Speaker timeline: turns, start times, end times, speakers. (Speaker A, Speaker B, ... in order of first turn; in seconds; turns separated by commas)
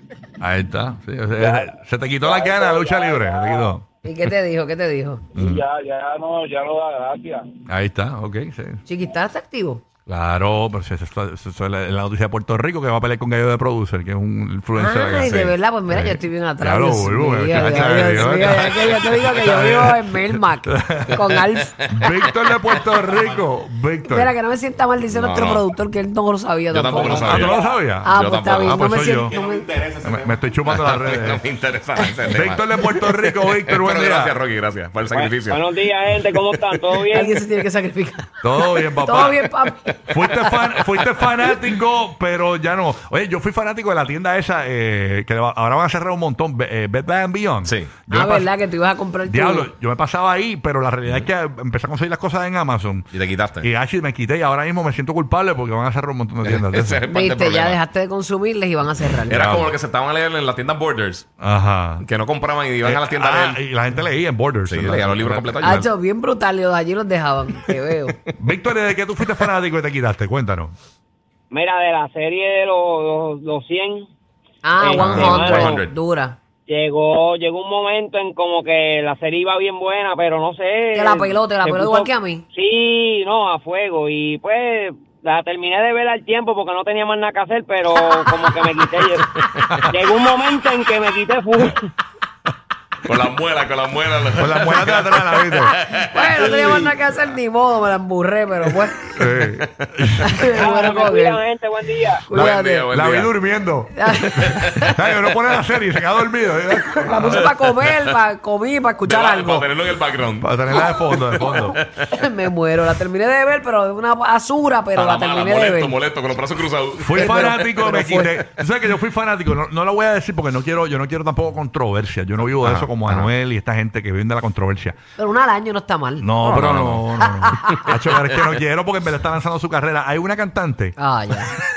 Speaker A: 0.4-3.9, Speaker B: 1.4-1.7, Speaker B: 2.2-3.8, Speaker C: 4.0-5.2, Speaker A: 5.3-5.6, Speaker B: 5.4-7.5, Speaker A: 7.7-8.8, Speaker C: 8.8-9.8, Speaker A: 10.1-15.3, Speaker C: 14.8-21.8, Speaker D: 15.1-15.5, Speaker A: 15.9-24.3, Speaker D: 17.6-19.0, Speaker C: 24.1-29.8, Speaker D: 25.1-25.6, Speaker D: 26.7-28.8, Speaker A: 27.1-29.4, Speaker A: 30.0-31.4, Speaker D: 30.6-35.7, Speaker A: 32.3-34.4, Speaker E: 35.1-37.4, Speaker C: 37.1-38.3, Speaker A: 38.4-39.5, Speaker C: 38.9-40.0, Speaker A: 40.1-48.5, Speaker D: 47.6-47.9, Speaker C: 48.1-49.7, Speaker A: 49.2-57.0, Speaker D: 53.1-53.7, Speaker D: 56.4-57.8, Speaker C: 57.1-59.6, Speaker D: 59.3-61.2, Speaker A: 59.3-59.7, Speaker A: 61.4-62.0, Speaker D: 62.0-63.6, Speaker A: 62.8-65.9, Speaker D: 64.7-65.8, Speaker C: 65.6-68.1, Speaker A: 68.4-70.7, Speaker E: 71.5-74.1, Speaker C: 74.6-76.3, Speaker E: 74.8-75.8, Speaker D: 75.0-75.9, Speaker A: 75.0-75.3, Speaker E: 76.7-91.9, Speaker C: 80.9-82.5, Speaker D: 89.4-89.8, Speaker D: 93.0-96.6, Speaker A: 94.3-95.8, Speaker C: 96.0-99.0, Speaker E: 96.3-96.9, Speaker A: 99.2-100.5, Speaker D: 99.2-99.8, Speaker C: 100.2-101.4, Speaker E: 100.5-102.3, Speaker C: 102.3-102.9, Speaker D: 102.3-103.3, Speaker A: 102.3-107.7, Speaker C: 103.9-104.9, Speaker C: 107.0-109.7, Speaker D: 109.0-111.9, Speaker A: 110.4-111.8, Speaker C: 112.1-116.0, Speaker D: 114.9-118.1, Speaker A: 117.0-125.0, Speaker C: 117.1-118.4, Speaker D: 122.6-123.3, Speaker C: 125.2-126.3, Speaker A: 126.2-131.0, Speaker D: 126.4-127.0, Speaker C: 127.2-127.8, Speaker C: 131.0-131.5